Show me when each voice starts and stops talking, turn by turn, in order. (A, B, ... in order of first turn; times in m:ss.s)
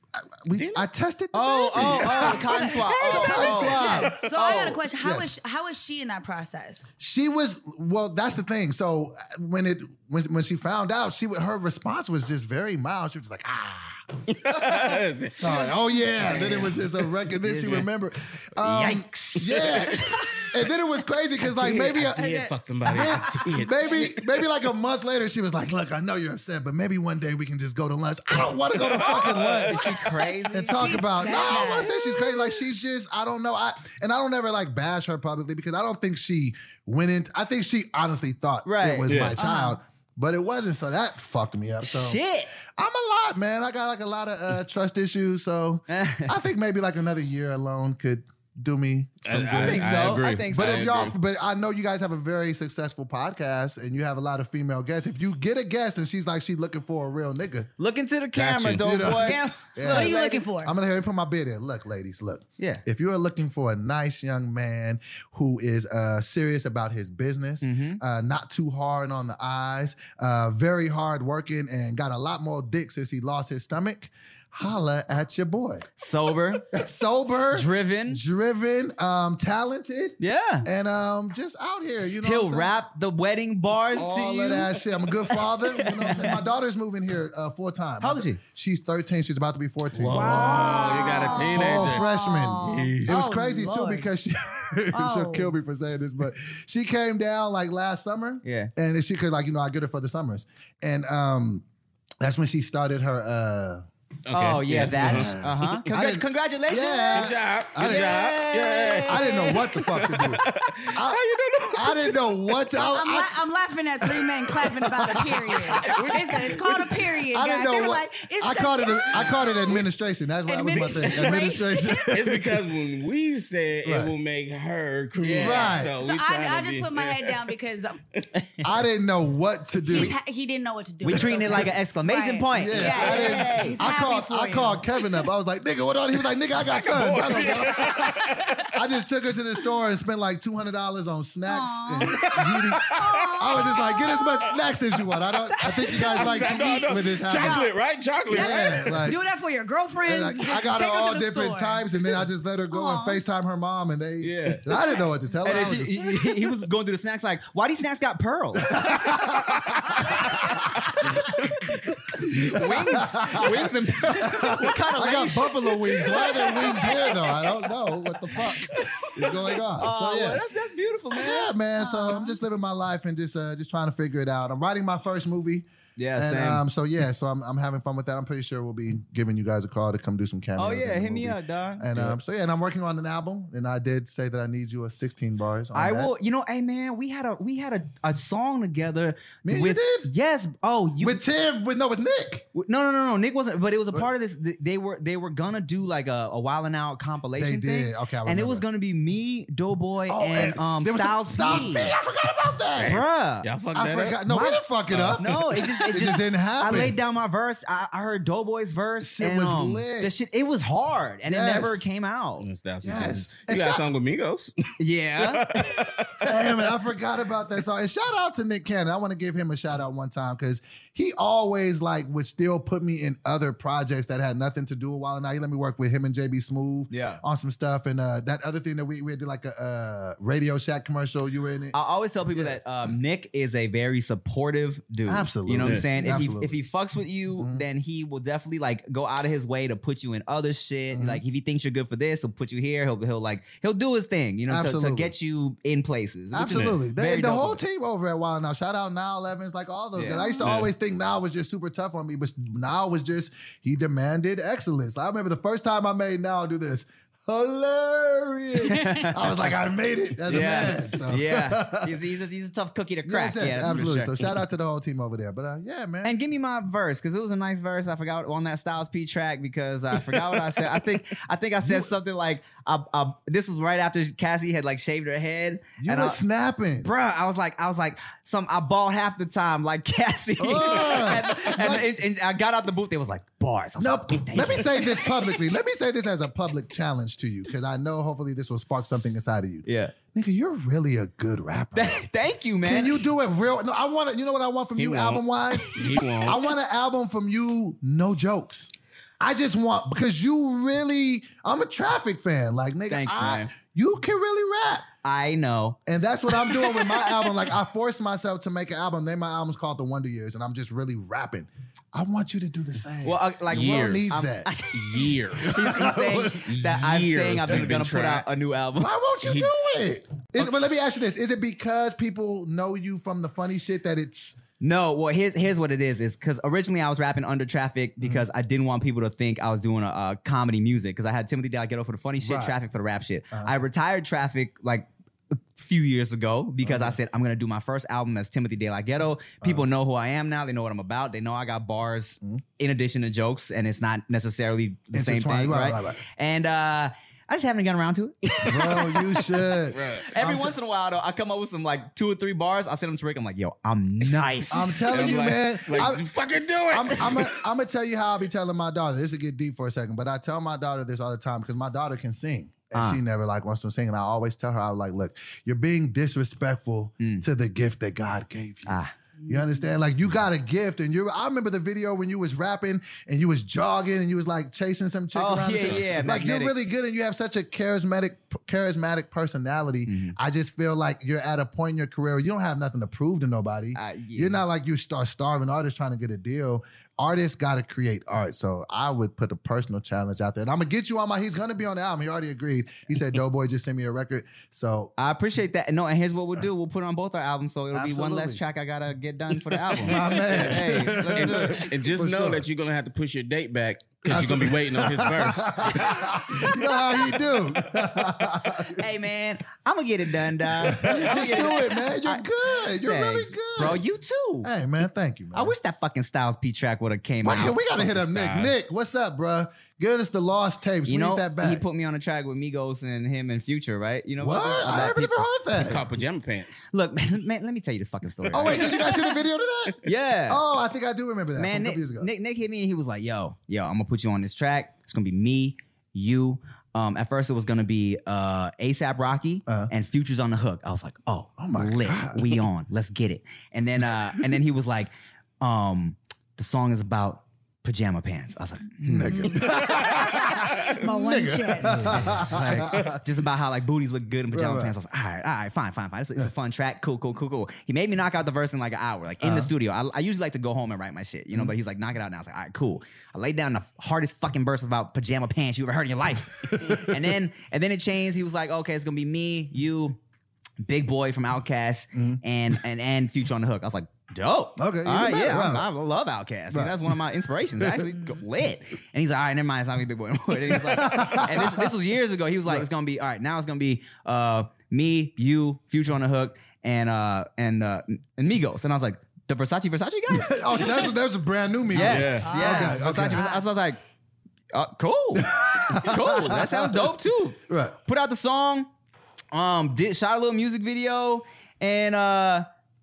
0:00.4-0:04.2 A
0:00.6-0:00.9 B
0:01.3-0:04.8 C
0:01.8-0:02.1 B
0:02.1-0:06.9 D
0:03.7-0:04.5 B
0:05.0-0:05.3 A
0:07.0-0:14.2 A
0:14.3-0:15.7 B
0:14.5-0:14.9 C
0:15.3-0:22.2 A
0:16.2-0:16.9 C
0:17.4-0:17.9 C
0:18.6-0:20.5 C
0:21.6-0:24.5 B
0:22.0-0:23.2 D
0:22.9-0:57.7 A
0:28.8-0:30.0 B
0:29.7-0:31.0 C
0:30.7-0:32.6 D
0:38.6-0:39.1 C
0:39.1-0:39.4 B
0:39.4-0:39.8 D
0:41.8-0:42.5 C
0:45.9-0:46.3 C
0:49.2-0:51.1 B
0:49.6-0:50.8 C
0:57.8-1:00.4 C
0:58.4-0:59.1 B
0:58.8-1:15.9 A
0:59.2-1:00.7 D
1:07.6-1:08.0 C
1:16.0-1:16.6 C
1:16.6-1:22.7 A
1:17.5-1:18.2 C
1:20.2-1:20.7 C
1:22.2-1:24.8 C
1:23.9-1:30.5 A
1:25.3-1:26.4 C
1:28.0-1:28.4 C
1:29.9-1:32.1 B
1:30.1-1:31.4 C
1:30.1-1:34.1 D
1:31.4-1:41.6 A
1:32.6-1:33.2 B
1:34.9-1:35.5 D
1:38.4-1:38.7 C
1:42.2-1:43.8 A
1:44.3-1:45.4 B
1:44.3-1:49.9 C
1:44.8-1:48.3 A
1:47.1-1:52.6 B
1:49.1-1:53.4 A
1:52.7-1:59.8 D
1:54.0-1:57.2 B
1:55.9-1:56.2 C
1:57.3-2:02.6 A
1:59.1-1:59.8 B
2:00.5-2:02.1 D
2:00.9-2:01.4 B
2:02.1-2:07.5 B
2:03.8-2:04.1 A
2:05.2-2:05.8 C
2:05.4-2:06.0 A
2:05.6-2:08.0 D
2:08.6-2:10.2 A
2:09.9-2:15.2 D
2:11.0-2:13.8 C
2:12.5-2:27.7 A
2:16.6-2:18.8 B
2:21.5-2:24.6 D
2:22.0-2:24.6 B
2:25.4-2:27.7 D
2:25.6-2:29.1 B
2:28.3-2:32.2 D
2:28.3-2:29.2 A
2:30.0-2:36.3 A
2:32.7-2:33.2 D
2:34.2-2:34.6 C
2:35.4-2:38.8 C
2:38.6-2:50.5 A
2:41.1-2:41.8 B
2:42.3-2:47.0 C
2:45.8-2:47.7 B
2:48.3-2:49.6 B
2:49.8-2:51.5 C
2:51.1-3:06.1 A
2:51.8-2:52.4 D
2:56.0-2:56.6 C
3:00.6-3:01.9 C
3:05.7-3:11.2 C
3:09.4-3:10.1 A
3:11.0-3:12.4 A
3:12.5-3:22.0 C
3:17.4-3:18.6 A
3:20.1-3:23.0 A
3:22.8-3:24.2 B
3:22.8-3:23.5 C
3:23.7-3:27.0 A
3:24.3-3:24.6 C
3:24.9-3:25.9 B
3:25.2-3:32.4 C
3:29.0-3:30.1 A
3:31.3-3:31.8 A
3:32.4-3:34.5 B
3:32.8-3:33.9 A
3:34.8-3:35.6 C
3:35.2-3:36.4 B
3:36.2-3:51.8 A
3:46.9-3:47.2 C
3:51.7-4:07.6 C
3:55.1-3:56.6 A
3:57.4-3:57.6 A
4:00.9-4:01.2 A
4:04.5-4:05.1 A
4:06.3-4:22.0 A
4:06.5-4:06.8 B
4:10.0-4:10.2 C
4:10.1-4:10.5 D
4:10.4-4:10.7 B
4:18.7-4:19.2 C
4:20.3-4:24.1 C
4:23.0-4:26.2 A
4:26.0-4:36.2 C
4:31.6-4:31.9 A
4:35.8-4:36.9 A
4:36.8-4:45.3 C
4:40.4-4:41.9 A
4:43.8-4:52.0 A
4:49.6-4:50.0 C
4:51.8-4:53.1 C
4:52.6-5:04.9 A
4:54.8-4:56.4 B
5:02.9-5:03.5 C
5:05.0-5:05.8 C
5:05.9-5:14.5 A
5:06.5-5:06.9 C
5:13.0-5:18.9 C
5:13.5-5:15.7 B
5:15.4-5:16.5 A
5:16.4-5:18.3 B
5:18.8-5:24.4 A
5:19.2-5:19.5 B
5:24.6-5:54.8 C
5:32.2-5:32.6 A
5:36.6-5:37.0 A
5:39.4-5:39.7 A
5:44.9-5:46.0 A
5:48.4-5:50.6 A
5:49.7-5:50.1 B
5:54.5-5:56.1 A
5:54.8-5:57.4 B
5:56.7-6:34.9 A
6:02.7-6:03.0 C
6:07.0-6:07.2 C
6:08.7-6:08.9 C
6:09.2-6:09.7 D
6:15.1-6:16.6 C
6:19.9-6:20.2 C
6:23.8-6:24.4 C
6:35.0-6:41.7 C
6:37.7-6:38.4 A
6:39.7-6:42.4 A
6:40.1-6:45.9 B
6:44.1-6:48.8 A
6:45.6-6:46.6 C
6:48.7-6:54.5 C
6:50.6-6:53.8 A
6:51.0-6:51.6 B
6:54.4-6:55.5 A
6:55.3-6:57.8 C
6:57.2-7:01.6 A
6:57.8-6:58.6 B
7:00.9-7:05.3 C
7:04.2-7:05.8 A
7:05.6-7:06.7 B
7:06.7-7:08.9 C
7:08.3-7:08.8 B
7:08.3-7:12.1 A
7:09.8-7:10.4 C
7:11.4-7:29.5 C
7:19.5-7:19.7 A
7:21.4-7:22.4 A
7:28.8-7:33.0 A
7:29.6-7:30.8 B
7:30.0-7:32.3 D
7:31.7-7:50.0 C
7:34.3-7:34.8 A
7:39.2-7:39.5 A
7:46.5-7:47.0 A
7:50.6-8:10.9 C
7:51.9-7:52.2 A
7:54.6-7:55.7 A
7:56.5-7:57.0 A
8:00.5-8:01.7 A
8:10.1-8:13.3 A
8:11.7-8:13.8 C
8:11.8-8:12.3 B
8:12.3-8:13.4 D
8:14.5-8:18.7 C
8:15.2-8:16.8 A
8:17.5-8:17.8 A
8:19.3-8:22.5 C